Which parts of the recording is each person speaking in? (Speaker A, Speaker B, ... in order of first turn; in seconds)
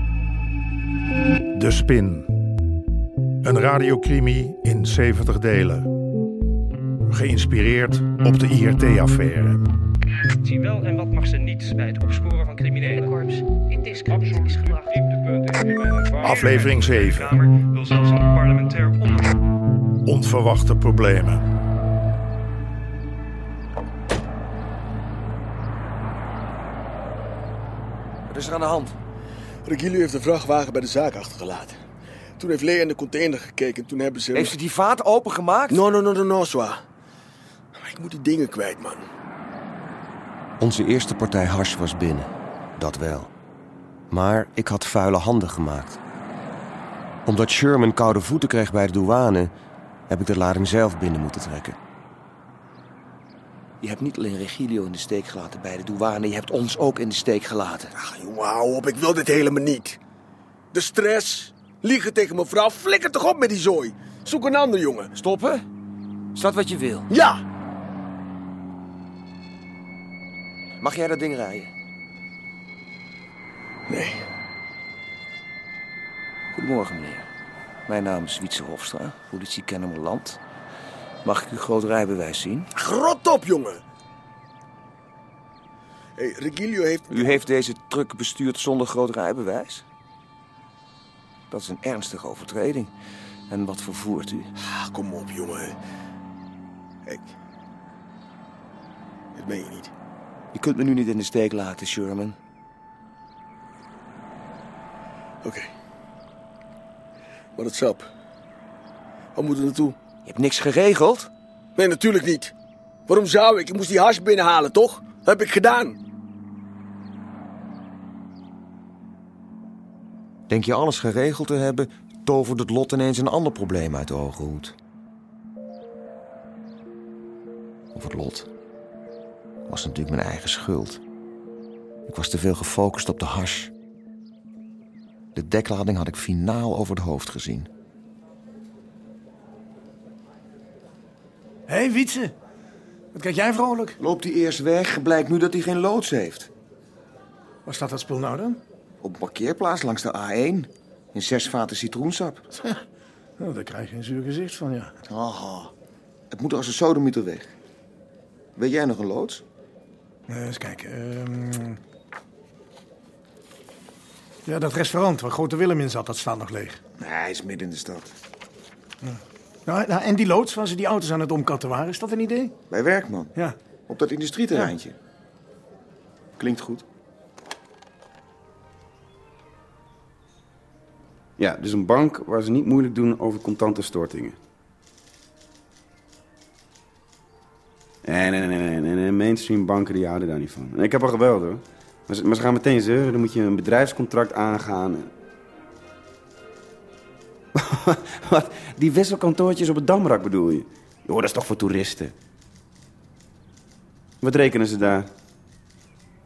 Speaker A: 1.5-2.3, 3.4-5.9, 7.1-9.6, 16.2-17.4, 20.0-21.4
Speaker B: 10.5-19.3
Speaker C: 28.3-29.0, 34.3-35.8, 40.6-43.3, 44.1-46.0, 47.2-49.5, 50.1-51.8, 53.8-57.9, 65.1-65.6, 66.3-67.1, 70.8-71.7, 76.5-77.3, 77.9-80.4, 81.2-82.7, 87.1-89.8, 91.5-92.9, 93.5-94.5, 100.5-102.3, 110.2-111.3, 120.5-124.8, 127.9-128.5, 129.7-131.0, 132.1-133.7, 135.3-137.7, 144.0-146.5, 149.0-152.4, 155.1-155.7, 156.3-157.5, 158.6-159.4, 167.0-168.1, 172.7-173.3, 173.9-174.9, 176.4-176.8
Speaker D: 29.6-31.8, 32.4-34.5, 35.7-36.8, 37.7-39.0, 57.9-60.0, 60.7-65.1, 67.1-67.4, 73.9-74.2, 82.8-83.8, 86.2-87.4, 94.6-95.8, 97.0-97.3, 99.3-99.9, 105.4-105.7, 107.5-108.1, 109.3-110.0, 111.8-112.5, 113.1-116.0
Speaker E: 141.7-142.3, 143.1-144.0, 147.7-148.6, 152.5-152.8, 153.4-154.9, 160.3-161.8, 164.4-166.8, 169.0-172.5
Speaker F: 181.4-184.4, 188.0-195.1, 197.6-202.1, 204.2-205.1